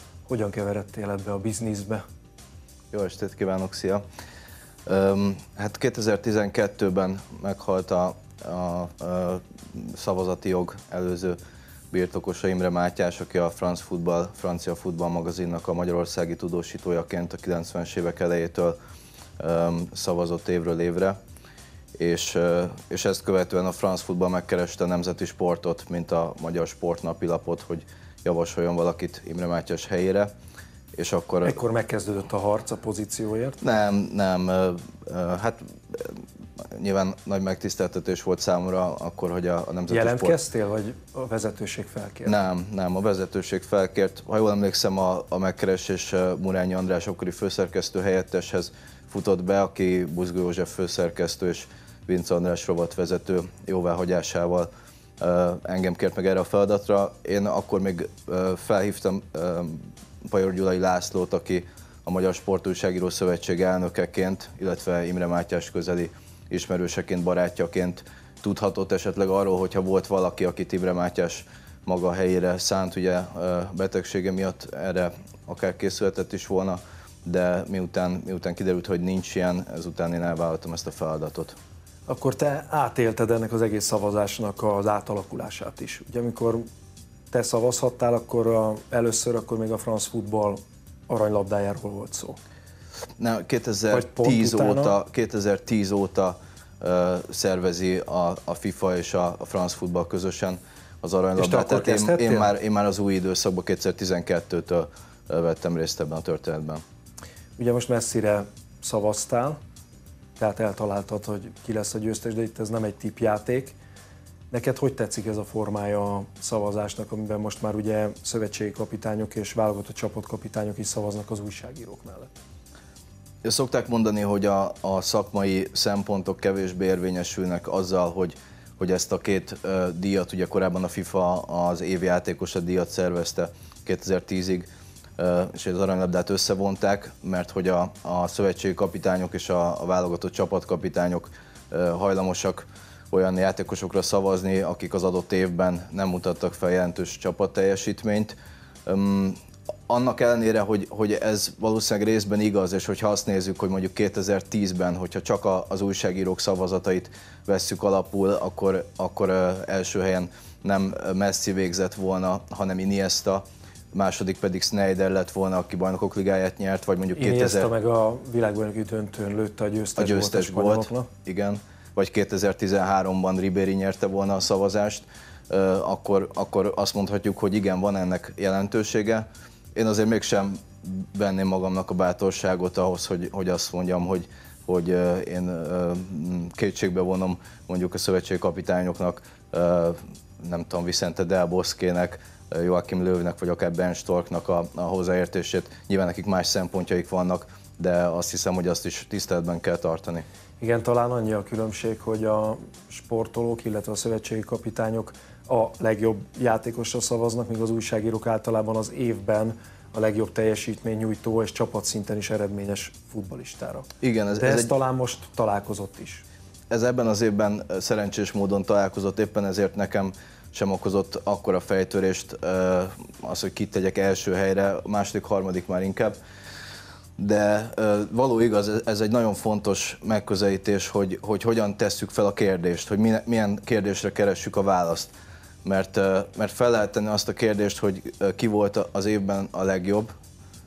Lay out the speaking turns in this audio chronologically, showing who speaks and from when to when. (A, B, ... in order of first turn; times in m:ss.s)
0:00.3-0:02.0 A
0:02.9-0:04.0 B
0:04.9-0:11.4 B
0:11.9-0:18.8 B
0:19.4-0:21.2 B
0:22.0-0:30.3 B
0:31.0-0:31.6 B
0:31.4-0:33.6 A
0:33.6-0:36.2 B
0:36.8-0:40.4 B
0:39.9-0:42.4 A
0:42.2-1:21.6 B
1:22.1-1:26.6 A
1:27.3-1:32.4 A
1:33.2-1:46.8 B
1:33.9-1:35.0 A
1:41.4-1:42.5 A
1:47.6-1:49.6 A
1:50.4-1:53.8 A
1:54.5-2:02.3 A
2:03.4-2:14.7 B
2:15.2-2:28.4 B
2:28.9-2:47.7 B
2:47.2-2:51.1 A
2:50.0-3:20.2 B
3:20.6-3:36.3 A
3:34.0-3:34.7 B
3:36.7-3:46.2 B
3:47.2-4:00.1 B